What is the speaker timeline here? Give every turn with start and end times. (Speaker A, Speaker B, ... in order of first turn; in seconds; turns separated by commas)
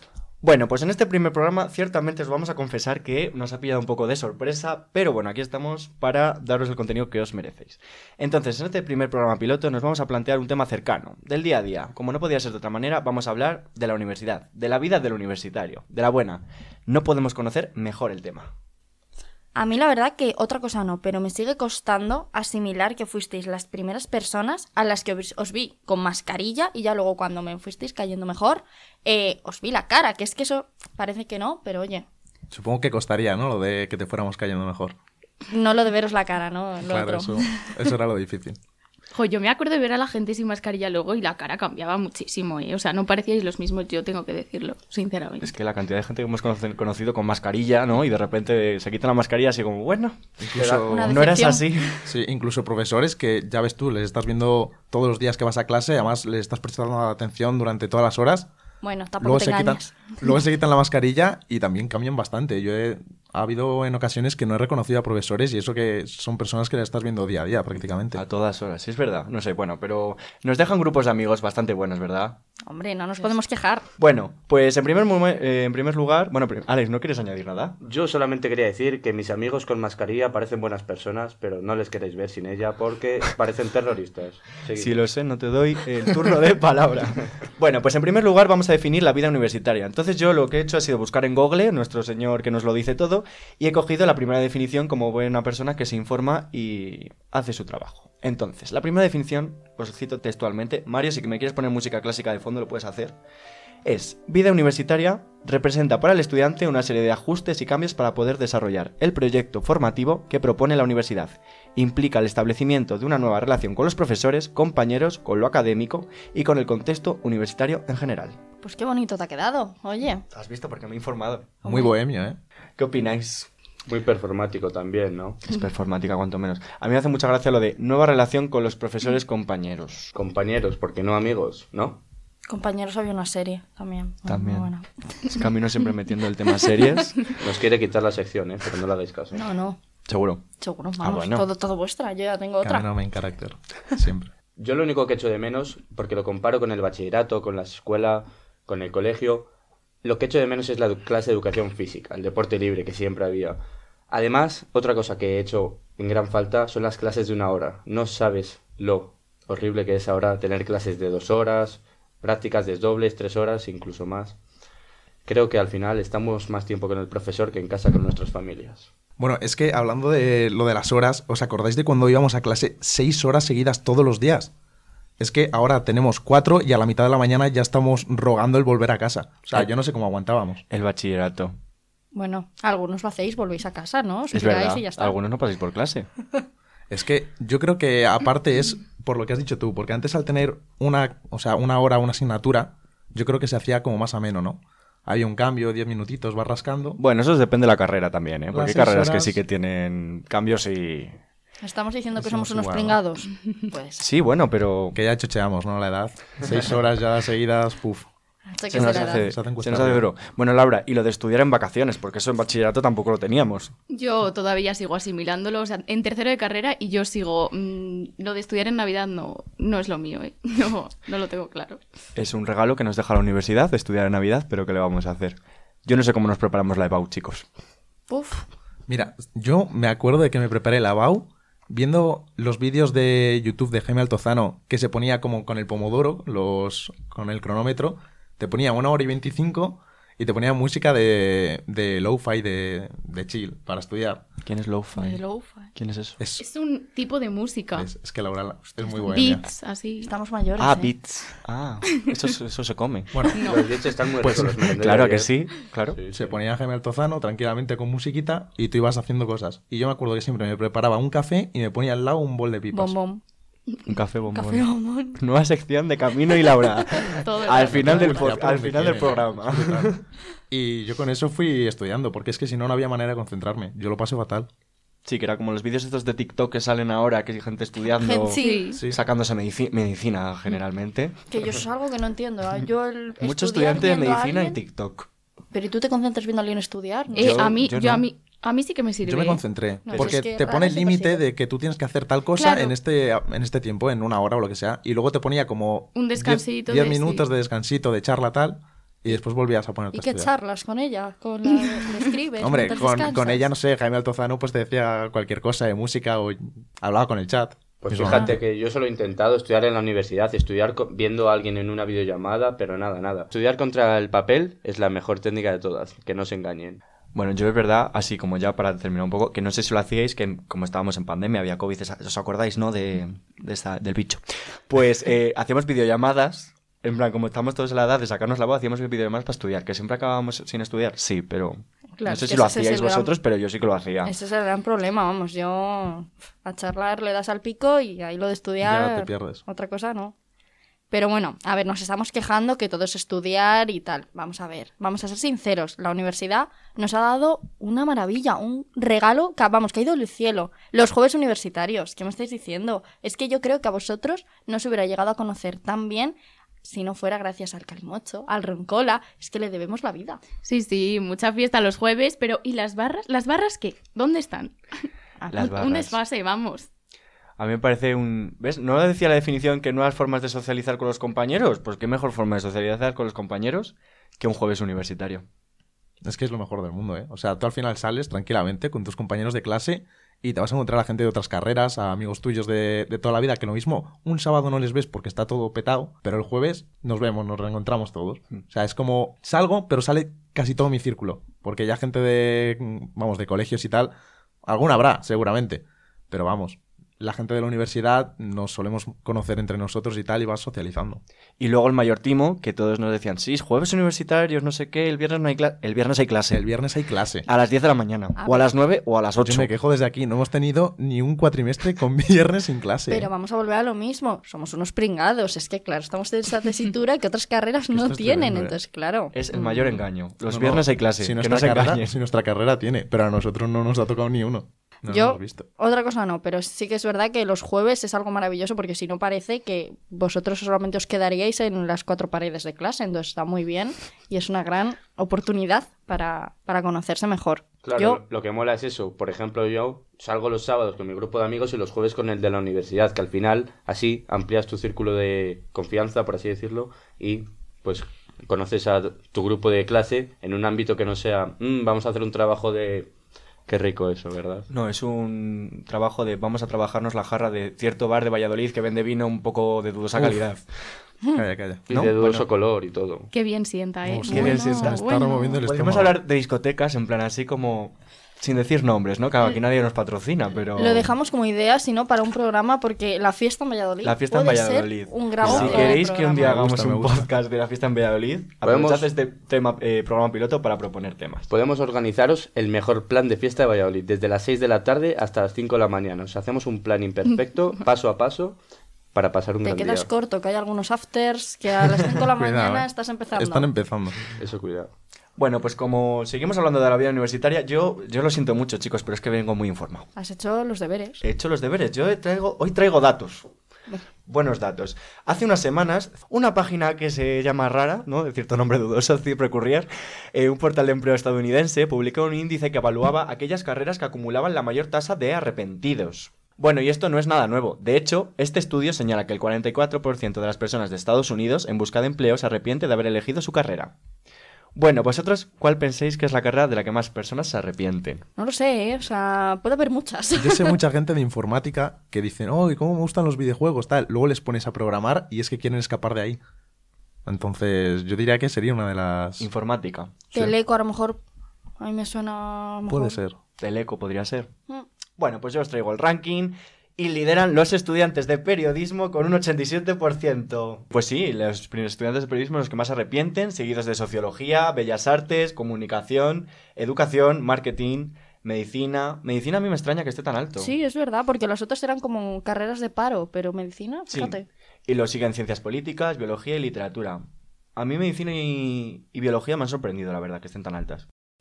Speaker A: 0.4-18.5, Speaker B: 19.5-32.0, Speaker C: 32.5-34.9, Speaker B: 35.5-37.6, Speaker C: 36.8-38.6, Speaker D: 39.1-45.5, Speaker A: 45.4-52.0, Speaker C: 50.4-51.1, Speaker B: 50.8-51.7, Speaker C: 52.0-58.5, Speaker B: 58.8-60.1, Speaker C: 59.2-68.2, Speaker A: 68.1-72.4, Speaker B: 72.7-73.9, Speaker A: 74.0-77.8, Speaker E: 77.8-84.9, Speaker A: 84.8-103.2, Speaker A: 103.8-118.4, Speaker B: 118.6-120.2, Speaker A: 120.3-121.5, Speaker C: 121.6-122.4, Speaker B: 121.6-122.0, Speaker A: 122.8-123.5, Speaker E: 123.9-125.4, Speaker A: 125.4-130.1, Speaker E: 130.1-132.0, Speaker B: 132.5-134.9, Speaker A: 134.2-134.7, Speaker A: 135.2-137.2, Speaker E: 137.4-139.5, Speaker B: 139.3-139.8, Speaker A: 140.1-140.4, Speaker B: 140.6-142.9, Speaker A: 141.0-141.4, Speaker C: 142.6-144.3, Speaker E: 144.6-149.5, Speaker E: 150.0-153.6, Speaker E: 154.1-164.3, Speaker E: 165.2-168.9, Speaker C: 169.2-174.5, Speaker C: 175.2-180.6, Speaker A: 180.7-181.6, Speaker B: 182.1-185.2, Speaker A: 184.3-186.1, Speaker C: 186.9-197.0, Speaker A: 197.0-201.2, Speaker C: 198.5-199.4, Speaker B: 201.6-204.0, Speaker C: 202.2-203.0, Speaker A: 204.0-205.0, Speaker C: 204.9-208.1, Speaker B: 208.5-209.2, Speaker A: 208.7-213.7, Speaker C: 208.7-210.1, Speaker D: 213.9-221.8, Speaker A: 222.1-227.4, Speaker B: 228.1-228.4, Speaker C: 228.9-244.2, Speaker A: 244.4-245.2, Speaker B: 244.9-245.7, Speaker A: 245.7-246.2, Speaker C: 246.2-246.4, Speaker D: 246.4-247.9, Speaker C: 247.7-249.4, Speaker D: 249.1-250.1, Speaker B: 250.0-250.9, Speaker A: 250.6-253.1, Speaker C: 253.1-253.5, Speaker D: 253.3-253.7, Speaker E: 253.4-255.3, Speaker C: 254.2-254.8, Speaker A: 254.8-256.0, Speaker E: 255.9-256.4, Speaker C: 256.1-262.9, Speaker B: 262.7-263.2, Speaker A: 263.9-270.0, Speaker B: 264.3-265.2, Speaker D: 267.2-268.4, Speaker C: 267.5-269.9, Speaker C: 270.5-274.5, Speaker A: 275.0-281.2, Speaker B: 277.9-278.7, Speaker D: 278.4-278.8, Speaker C: 278.7-279.0, Speaker B: 281.3-284.6, Speaker A: 283.2-285.1, Speaker B: 285.5-287.5, Speaker D: 287.1-289.4, Speaker A: 287.1-288.1, Speaker C: 289.0-300.3, Speaker B: 289.8-291.2, Speaker D: 295.9-297.2, Speaker B: 299.9-303.5, Speaker C: 302.4-308.3, Speaker E: 307.8-316.8, Speaker A: 317.1-334.1, Speaker B: 332.0-333.1, Speaker B: 334.0-340.1, Speaker C: 338.6-339.4, Speaker B: 340.9-360.2, Speaker D: 360.4-364.6, Speaker B: 365.2-365.4, Speaker A: 365.3-366.0, Speaker D: 365.4-366.7, Speaker A: 367.4-375.2, Speaker C: 376.0-393.9, Speaker C: 394.4-401.0, Speaker A: 401.4-406.4, Speaker C: 406.3-407.2, Speaker A: 407.2-409.5, Speaker B: 408.2-408.5, Speaker C: 409.2-413.1, Speaker B: 412.9-419.7, Speaker C: 417.7-418.6, Speaker A: 419.1-422.0, Speaker C: 420.3-425.4, Speaker B: 424.9-438.0, Speaker E: 437.6-452.9, Speaker E: 453.5-454.5, Speaker A: 454.5-460.4, Speaker C: 459.9-460.2, Speaker C: 461.1-461.6, Speaker E: 461.7-463.1, Speaker A: 461.7-462.2, Speaker D: 463.1-465.4, Speaker C: 463.8-466.0, Speaker A: 464.1-464.8, Speaker A: 465.4-470.9, Speaker B: 470.6-476.3, Speaker A: 473.8-481.3, Speaker C: 475.2-477.1, Speaker E: 478.4-478.9, Speaker E: 481.3-488.4, Speaker E: 488.9-489.9, Speaker B: 489.4-493.5, Speaker C: 492.1-494.0, Speaker E: 494.2-494.7, Speaker A: 495.2-499.9, Speaker B: 499.9-501.0, Speaker A: 501.0-503.3, Speaker A: 504.0-523.7, Speaker A: 524.5-528.0, Speaker B: 528.2-530.5, Speaker C: 530.2-536.2, Speaker C: 537.0-539.3, Speaker A: 539.2-540.0, Speaker B: 540.1-541.0, Speaker B: 541.6-543.0, Speaker C: 542.7-543.2, Speaker A: 543.4-544.3, Speaker A: 545.0-560.5, Speaker B: 560.4-564.2, Speaker A: 563.9-570.9